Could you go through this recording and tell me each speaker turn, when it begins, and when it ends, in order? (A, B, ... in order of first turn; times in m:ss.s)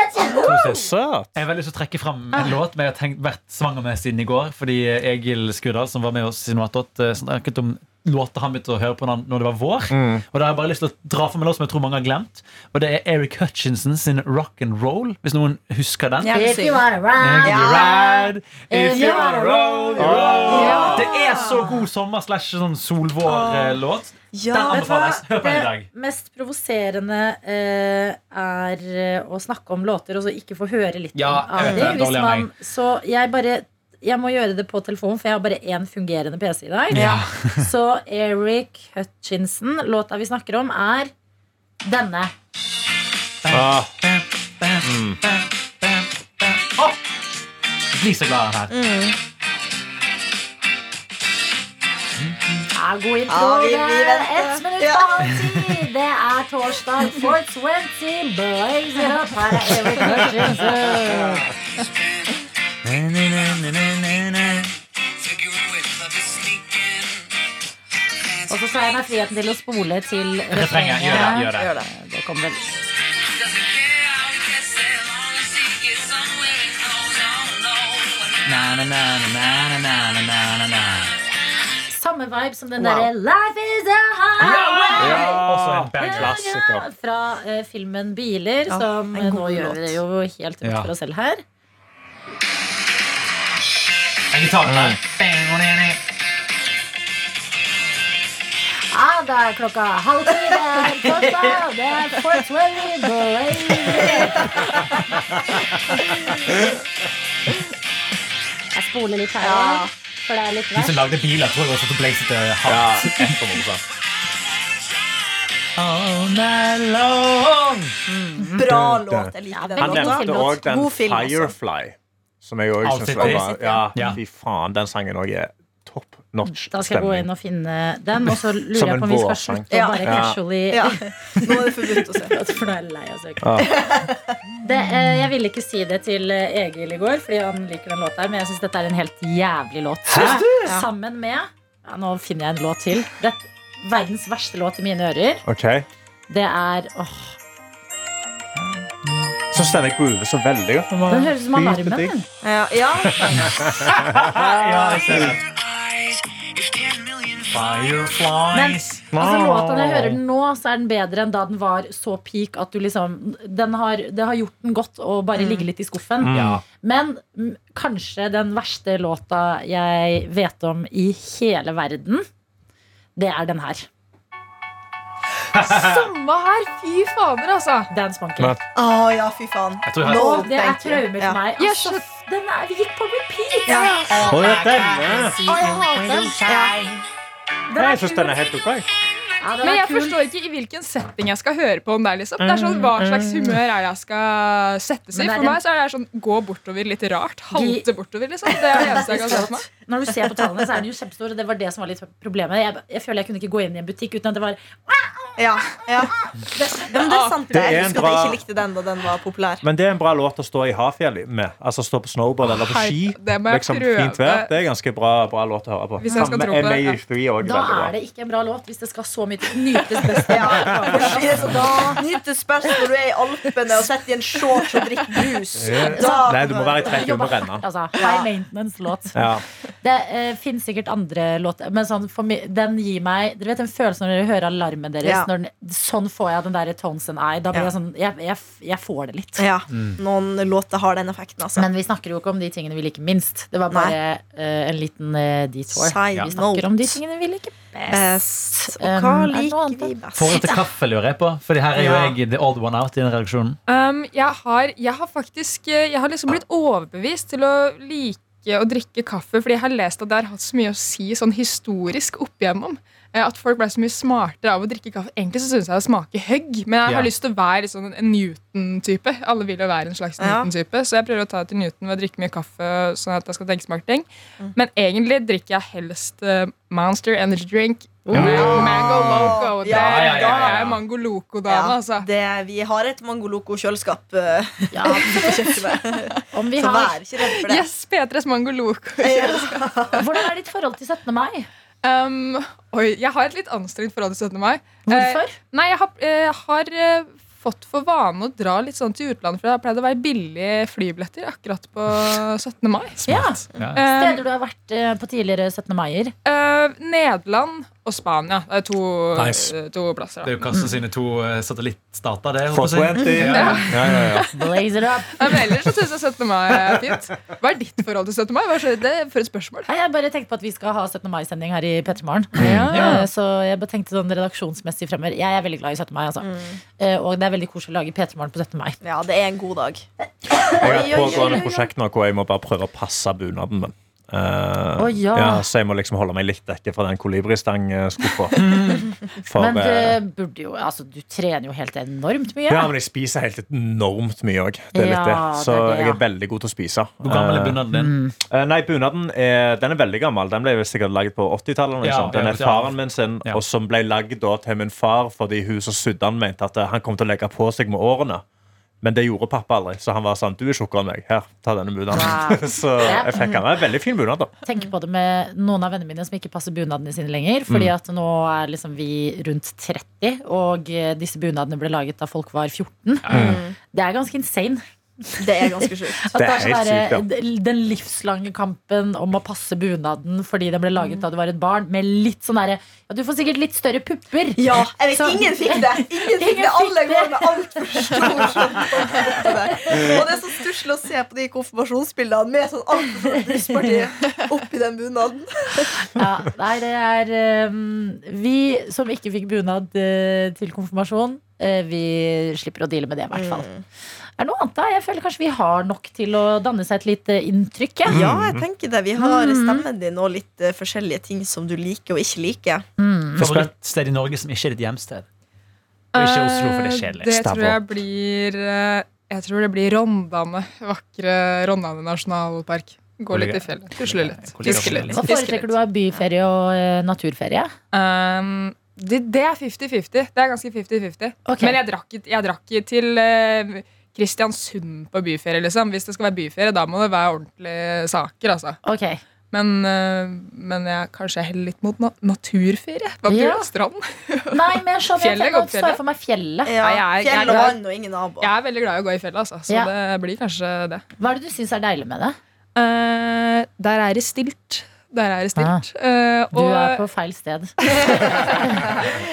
0:00.2-0:00.6 A
0:00.4-0:16.4 B
0:00.5-0:01.3 C
0:09.9-0:10.2 C
0:16.2-0:16.8 A
0:16.3-0:18.0 D
0:17.2-0:25.9 B
0:17.4-0:18.3 A
0:18.7-0:21.8 D
0:19.0-0:19.4 C
0:20.0-0:21.0 C
0:20.5-0:21.7 A
0:23.2-0:23.8 A
0:24.3-0:25.0 A
0:24.6-0:41.1 D
0:31.1-0:32.5 B
0:31.6-0:32.0 A
0:36.9-0:37.7 B
0:36.9-0:37.2 A
0:41.8-0:42.3 D
0:43.4-0:47.0 B
0:43.5-0:43.9 C
0:44.8-0:45.2 C
0:47.9-0:48.7 B
0:48.7-0:49.2 A
0:52.7-1:01.4 D
0:53.3-0:55.1 A
1:02.8-1:04.7 B
1:05.4-1:06.6 B
1:08.5-1:12.7 D
1:10.5-1:11.8 B
1:11.1-1:11.9 A
1:14.0-1:21.1 B
1:21.9-1:25.4 D
1:22.8-1:23.1 A
1:24.4-1:26.4 B
1:25.0-1:26.9 C
1:26.0-1:31.4 D
1:28.7-1:30.0 A
1:30.6-1:30.9 B
1:34.3-1:36.0 B
1:34.6-1:35.0 C
1:38.9-1:44.7 D
1:48.7-1:51.1 D
1:49.4-1:49.9 A
1:50.7-1:53.4 B
1:52.6-1:53.8 C
1:55.8-1:57.9 B
1:58.1-1:58.7 D
1:58.5-2:01.5 A
1:58.6-2:07.3 C
1:59.5-2:00.6 D
2:02.8-2:04.2 B
2:03.3-2:03.8 D
2:06.4-2:11.0 D
2:08.6-2:10.4 C
2:09.7-2:12.4 A
2:12.2-2:13.7 D
2:13.4-2:13.7 C
2:13.6-2:14.4 A
2:14.6-2:25.4 D
2:20.1-2:20.6 C
2:25.4-2:25.8 C
2:26.3-2:27.4 D
2:29.5-2:32.1 C
2:31.1-2:32.2 D
2:32.4-2:33.4 A
2:33.0-2:34.4 C
2:33.9-2:35.4 B
2:36.7-2:39.0 B
2:38.5-2:52.2 D
2:39.1-2:40.2 C
2:45.3-2:45.7 A
2:46.2-2:46.6 C
2:46.3-2:46.6 B
2:53.2-2:53.9 D
2:55.5-2:56.0 B
2:55.6-2:57.9 E
2:57.9-2:58.6 D
2:58.4-2:58.6 C
2:58.7-3:01.4 A
2:59.8-3:00.4 B
3:00.0-3:07.0 D
3:01.6-3:02.0 E
3:03.7-3:04.4 A
3:04.2-3:05.5 C
3:05.5-3:06.8 A
3:05.5-3:06.3 E
3:07.7-3:08.4 D
3:07.8-3:08.9 C
3:09.4-3:10.2 D
3:09.6-3:19.6 E
3:12.4-3:13.5 C
3:15.1-3:15.6 D
3:17.5-3:17.8 D
3:18.7-3:25.4 D
3:18.8-3:19.4 A
3:25.4-3:26.1 A
3:26.6-3:26.9 D
3:26.9-3:27.4 E
3:26.9-3:29.6 A
3:27.5-3:28.4 C
3:29.6-3:37.9 C
3:32.4-3:34.5 E
3:36.0-3:37.0 E
3:36.0-3:36.4 D
3:37.4-3:42.0 D
3:40.3-3:47.2 A
3:40.7-3:41.4 C
3:45.6-3:47.6 C
3:45.8-3:49.2 D
3:47.9-3:48.3 A
3:49.1-3:49.4 C
3:49.8-3:59.4 D
3:59.4-4:01.6 A
3:59.7-4:00.0 B
4:01.6-4:10.6 D
4:03.7-4:04.0 A
4:05.7-4:07.0 A
4:07.9-4:10.4 A
4:10.1-4:13.6 B
4:11.7-4:12.1 A
4:13.7-4:42.1 E
4:26.8-4:27.1 B
4:30.2-4:30.5 A
4:38.1-4:38.4 D
4:38.1-4:40.7 A
4:38.2-4:38.6 B
4:38.4-4:39.4 C
4:39.7-4:40.7 B
4:41.5-4:47.6 A
4:44.7-4:45.5 D
4:46.3-4:47.0 D
4:47.4-4:50.0 E
4:49.0-4:50.0 A
4:50.0-4:51.5 D
4:51.8-5:03.1 E
4:54.9-4:55.4 D
5:03.1-5:06.1 D
5:03.1-5:03.8 B
5:03.7-5:04.2 E
5:06.2-5:10.5 E
5:09.2-5:09.5 C
5:10.2-5:14.0 B
5:12.5-5:14.3 C
5:13.2-5:14.3 E
5:14.2-5:15.4 D
5:15.2-5:19.7 E
5:19.7-5:28.8 D
5:22.4-5:22.9 C
5:22.4-5:23.1 E
5:26.2-5:26.6 A
5:28.8-5:29.8 A
5:30.3-5:31.6 D
5:30.5-5:31.6 A
5:30.6-5:38.4 C
5:34.8-5:35.4 D
5:38.4-5:38.9 B
5:39.2-5:40.0 C
5:39.3-5:42.7 D
5:42.5-5:47.6 C
5:44.7-5:46.0 D
5:47.0-5:47.9 B
5:47.7-5:48.1 D
5:48.3-5:58.2 C
5:51.8-5:53.4 B
5:58.8-6:04.4 C
6:01.9-6:03.4 D
6:04.4-6:30.0 D
6:13.0-6:13.4 B
6:13.1-6:13.4 C
6:13.1-6:13.5 A
6:15.2-6:16.1 A
6:16.2-6:17.0 C
6:24.4-6:35.8 A
6:35.9-6:43.5 D
6:43.1-6:43.6 A
6:44.2-6:48.0 D
6:47.9-6:48.4 C
6:47.9-6:52.6 A
6:49.0-6:49.6 D
6:52.8-6:53.4 D
6:53.2-6:55.1 B
6:55.9-7:05.5 E
6:56.0-6:57.3 B
6:57.2-6:57.6 C
7:03.1-7:05.0 B
7:04.5-7:07.5 D
7:07.7-7:18.6 E
7:11.2-7:11.6 D
7:18.6-7:19.0 D
7:19.3-7:25.8 E
7:23.1-7:23.5 D
7:24.3-7:26.6 D
7:26.4-7:28.3 A
7:26.6-7:27.6 E
7:27.2-7:27.5 D
7:28.2-7:30.8 E
7:31.0-7:32.2 D
7:32.6-7:36.8 E
7:35.4-7:35.6 D
7:36.3-7:37.6 D
7:37.8-7:38.4 E
7:38.1-7:38.6 D